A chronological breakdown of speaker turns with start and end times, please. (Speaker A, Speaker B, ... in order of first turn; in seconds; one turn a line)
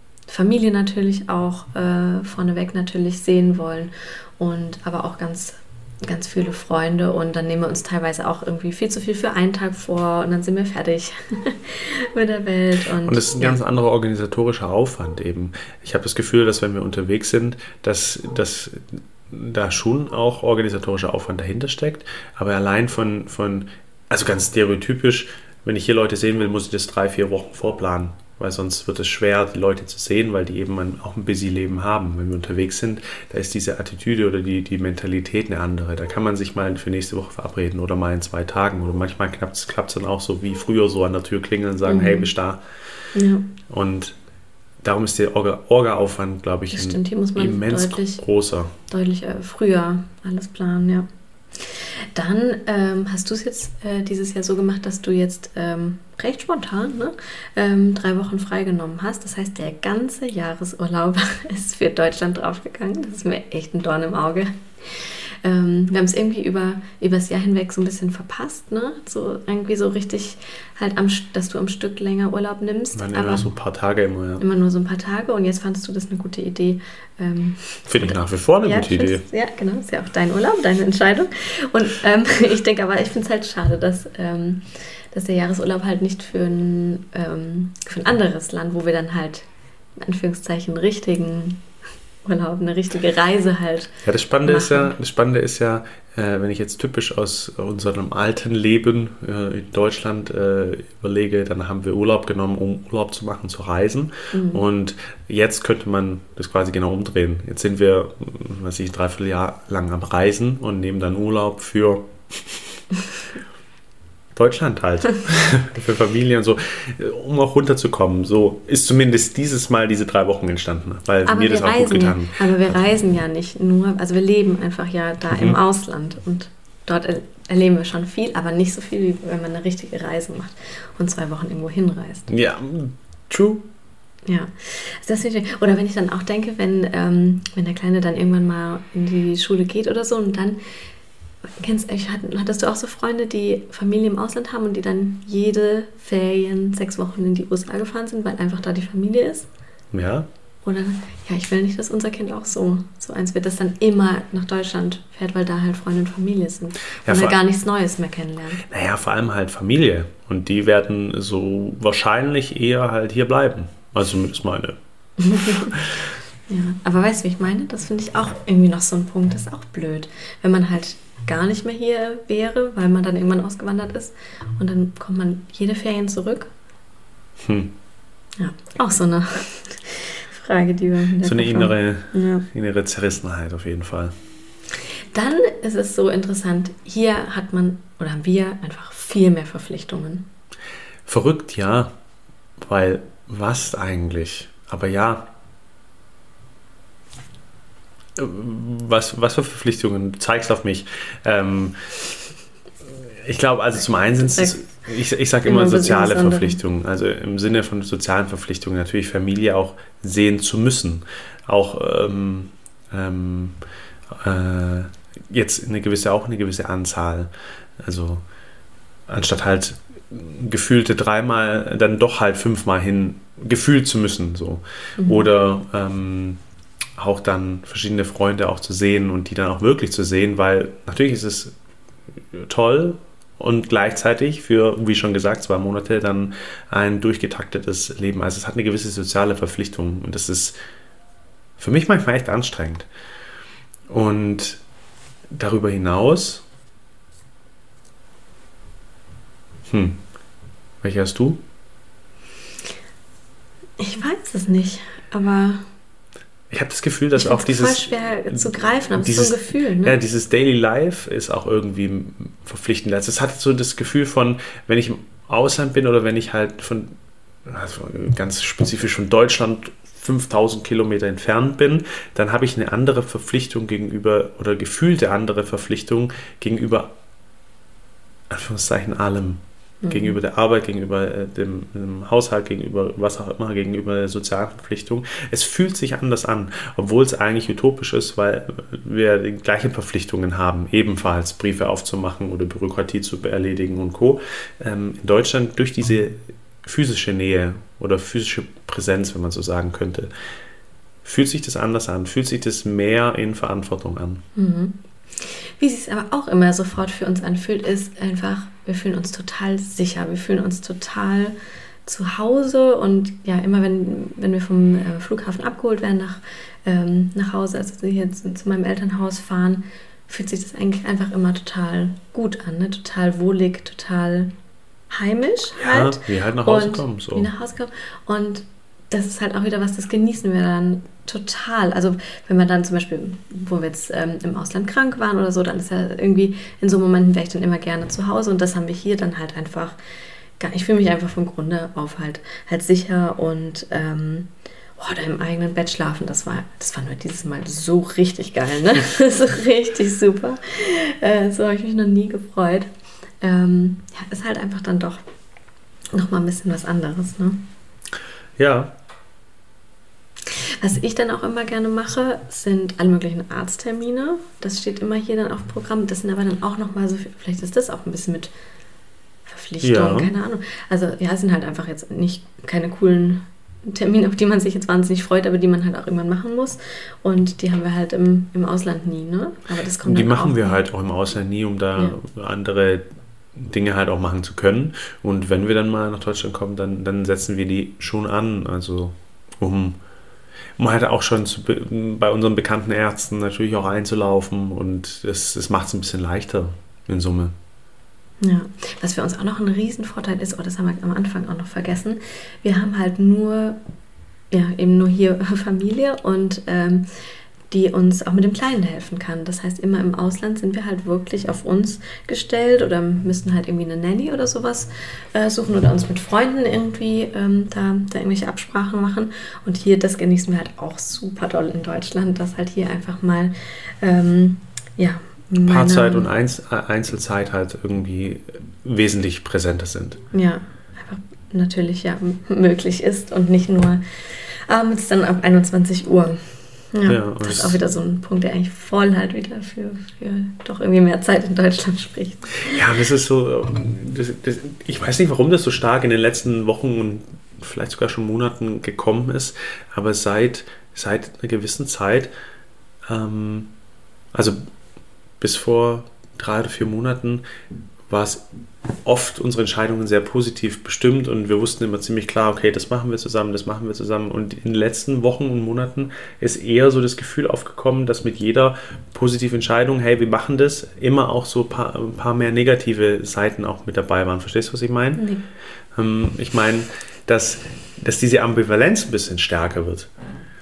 Speaker A: 0.3-13.6
Speaker B: 13.0-42.6
Speaker A: 41.9-42.3
Speaker A: 43.1-43.5
Speaker B: 43.7-44.1
Speaker B: 44.8-48.8
Speaker A: 46.7-48.2
Speaker A: 48.9-73.5
Speaker B: 72.9-74.4
Speaker A: 74.4-91.6
Speaker B: 77.9-79.2
Speaker A: 92.2-94.9
Speaker B: 94.0-112.6
Speaker A: 104.3-104.6
Speaker B: 114.3-122.9
Speaker A: 121.2-132.3
Speaker B: 125.3-125.6
Speaker B: 132.3-133.7
Speaker A: 134.2-140.6
Speaker A: 141.4-149.5
Speaker B: 149.9-150.3
Speaker A: 150.6-158.6
Speaker B: 157.0-157.4
Speaker B: 158.6-164.8
Speaker A: 165.2-165.7
Speaker B: 165.3-166.0
Speaker A: 166.5-176.5
Speaker B: 177.4-177.7
Speaker A: 178.3-182.4
Speaker B: 181.2-184.1
Speaker A: 185.1-190.3
Speaker B: 191.1-191.9
Speaker B: 192.6-195.3
Speaker B: 198.2-201.9
Speaker B: 203.0-213.6
Speaker A: 204.2-204.6
Speaker A: 205.4-206.6
Speaker B: 214.1-218.2
Speaker B: 219.1-226.4
Speaker A: 225.0-225.3
Speaker B: 227.0-231.5
Speaker B: 232.3-240.6
Speaker B: 241.6-242.9
Speaker B: 243.9-244.6
Speaker B: 245.3-246.4
Speaker B: 249.7-250.0
Speaker B: 250.8-251.4
Speaker A: 253.8-255.6
Speaker B: 256.5-276.9
Speaker A: 257.1-260.0
Speaker B: 278.3-300.1
Speaker A: 279.8-280.2
Speaker B: 301.0-304.2
Speaker A: 304.3-324.3
Speaker A: 324.9-339.8
Speaker B: 325.6-327.3
Speaker A: 340.4-352.7
Speaker A: 353.2-355.0
Speaker A: 355.9-357.4
Speaker B: 358.4-358.7
Speaker A: 360.3-368.3
Speaker A: 369.2-380.6
Speaker B: 369.6-370.1
Speaker B: 379.8-382.8
Speaker B: 383.4-389.8
Speaker B: 390.6-397.3
Speaker A: 398.2-403.6
Speaker A: 404.3-406.9
Speaker A: 407.5-426.1
Speaker B: 425.4-430.0
Speaker A: 430.1-442.6
Speaker B: 436.9-437.6
Speaker B: 442.4-452.1
Speaker B: 452.9-453.5
Speaker B: 454.1-454.4
Speaker B: 455.2-457.2
Speaker B: 457.9-458.2
Speaker B: 458.8-475.1
Speaker A: 475.0-475.2
Speaker B: 475.8-479.9